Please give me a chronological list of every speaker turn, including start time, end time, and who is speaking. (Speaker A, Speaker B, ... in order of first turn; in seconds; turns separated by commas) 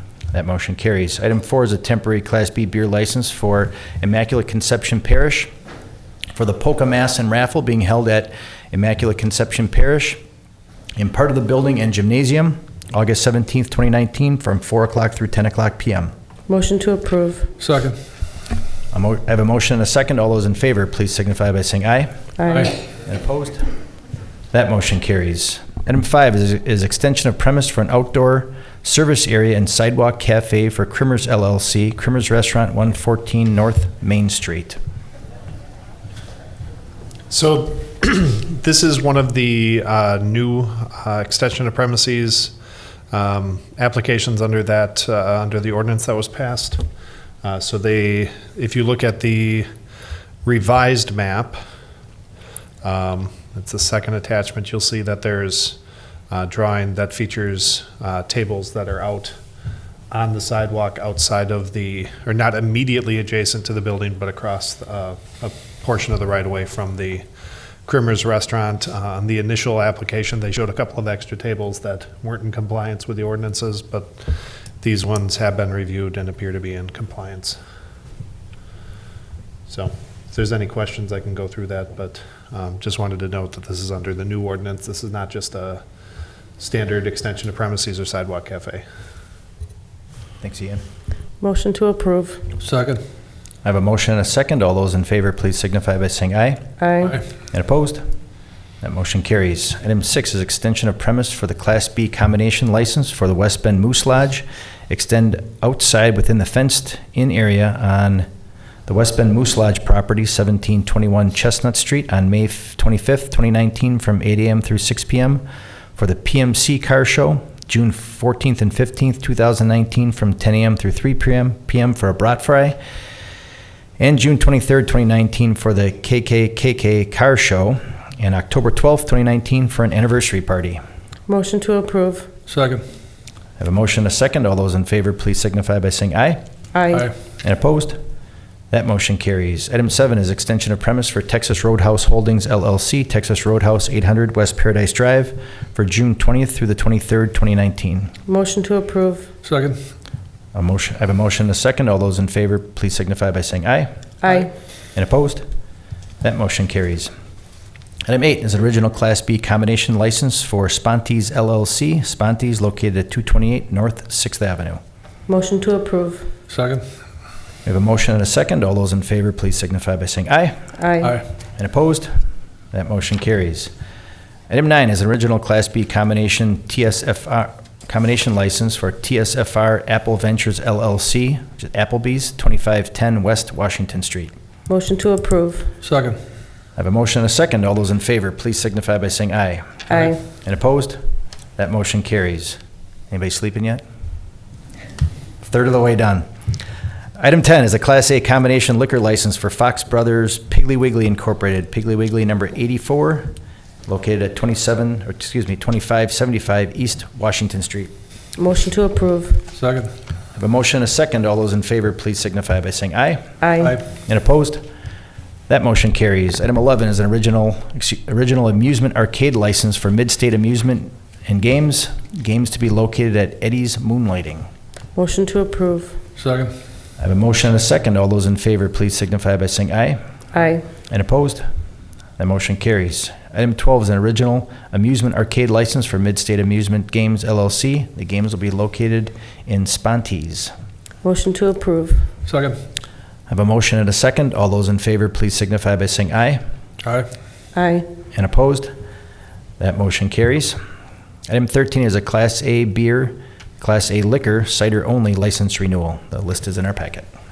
Speaker A: 0.3-5.5, Speaker A: 6.3-10.2, Speaker A: 11.0-16.1, Speaker B: 16.5-17.5, Speaker C: 17.6-18.0, Speaker A: 18.9-22.3, Speaker B: 22.4-22.7, Speaker C: 22.5-22.8, Speaker A: 22.9-23.7, Speaker A: 24.5-34.8, Speaker D: 37.3-42.5, Speaker D: 43.1-46.8, Speaker D: 47.4-49.7, Speaker D: 50.5-51.6, Speaker D: 52.8-55.8, Speaker D: 56.3-59.4, Speaker D: 60.1-67.2, Speaker D: 67.8-77.6, Speaker D: 79.7-85.8, Speaker D: 86.6-88.8, Speaker A: 90.4-90.8, Speaker B: 91.4-92.4, Speaker C: 92.6-93.0, Speaker A: 93.6-96.7, Speaker B: 96.8-97.2, Speaker A: 97.5-98.0, Speaker A: 98.8-108.3, Speaker A: 108.9-115.5, Speaker A: 116.0-122.8, Speaker A: 124.0-130.8, Speaker B: 131.3-132.3, Speaker C: 132.5-132.8, Speaker A: 133.6-136.4, Speaker B: 136.7-137.1, Speaker A: 137.4-138.0, Speaker A: 138.7-148.2, Speaker B: 148.3-149.3, Speaker C: 149.4-149.8, Speaker A: 150.5-153.9, Speaker A: 154.9-155.4, Speaker A: 156.2-157.1, Speaker A: 158.1-164.8, Speaker B: 165.3-166.3, Speaker C: 166.5-166.8, Speaker A: 167.7-170.7, Speaker B: 170.8-171.2, Speaker A: 171.6-172.1, Speaker A: 172.7-173.7, Speaker A: 174.5-184.3, Speaker B: 184.7-185.7, Speaker C: 185.8-186.2, Speaker A: 186.8-191.0, Speaker A: 191.6-192.6, Speaker A: 193.1-193.8, Speaker A: 195.4-196.3, Speaker A: 197.2-203.3, Speaker A: 203.9-207.9, Speaker B: 208.4-209.4, Speaker C: 209.6-209.9, Speaker A: 210.3-213.3, Speaker B: 213.4-213.8, Speaker A: 213.9-214.7, Speaker A: 215.5-224.5, Speaker B: 224.9-226.0, Speaker C: 226.2-226.5, Speaker A: 227.0-230.0, Speaker B: 230.3-230.6, Speaker A: 230.9-231.4, Speaker A: 232.2-240.5, Speaker B: 241.0-242.1, Speaker C: 242.3-242.6, Speaker A: 243.3-246.4, Speaker C: 246.8-247.1, Speaker B: 247.6-247.9, Speaker A: 248.1-248.7, Speaker A: 249.6-250.6, Speaker A: 251.3-257.1